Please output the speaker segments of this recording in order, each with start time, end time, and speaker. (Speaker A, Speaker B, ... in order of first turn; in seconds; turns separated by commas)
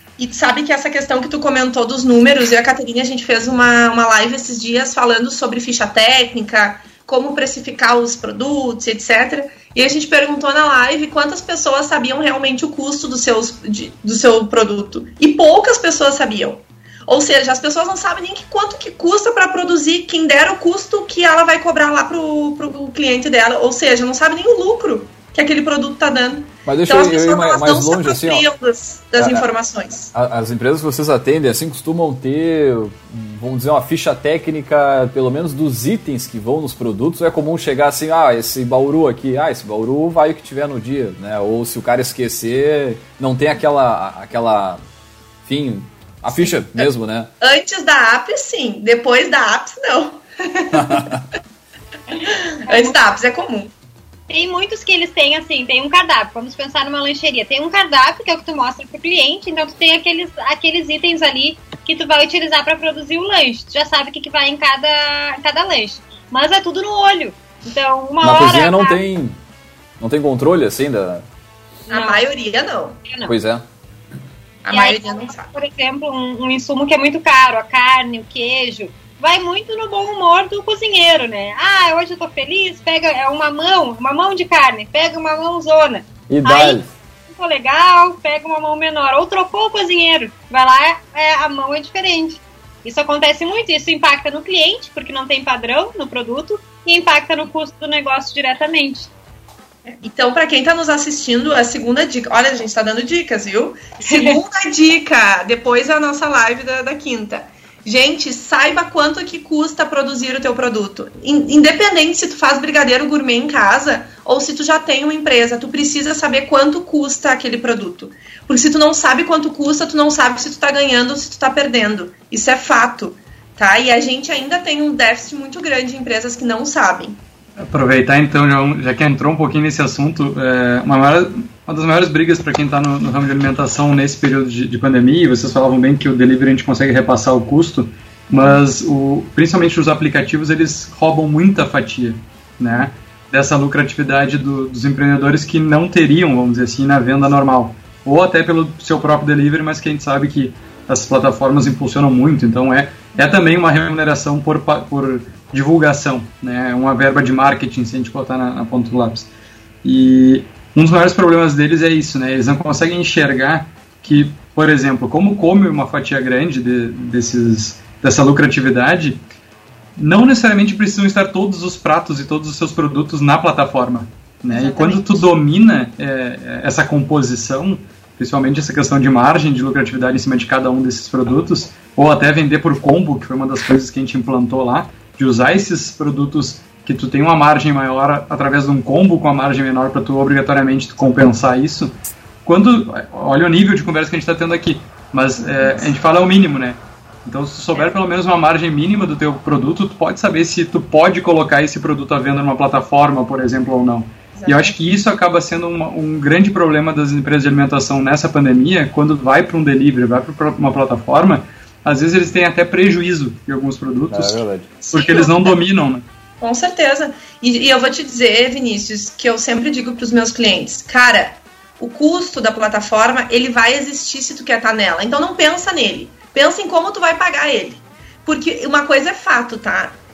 Speaker A: 0.2-30.1, Speaker B: 26.7-28.5, Speaker B: 29.2-29.5, Speaker B: 30.1-44.8, Speaker B: 45.5-47.3, Speaker A: 47.4-51.1, Speaker B: 50.7-51.2, Speaker A: 52.2-53.7, Speaker C: 52.7-53.0, Speaker C: 54.3-69.0, Speaker B: 68.2-69.4, Speaker B: 70.0-71.2, Speaker C: 71.9-72.3, Speaker A: 71.9-73.0, Speaker C: 73.1-73.3, Speaker B: 73.3-73.7, Speaker A: 74.6-75.6, Speaker C: 74.7-99.1, Speaker B: 86.3-86.9, Speaker A: 99.9-127.2, Speaker C: 104.0-104.4, Speaker D: 127.6-159.3, Speaker D: 159.8-169.2, Speaker D: 170.0-216.1, Speaker A: 174.5-175.2, Speaker A: 204.3-204.8, Speaker B: 214.1-214.7, Speaker A: 214.8-215.6, Speaker A: 216.4-230.0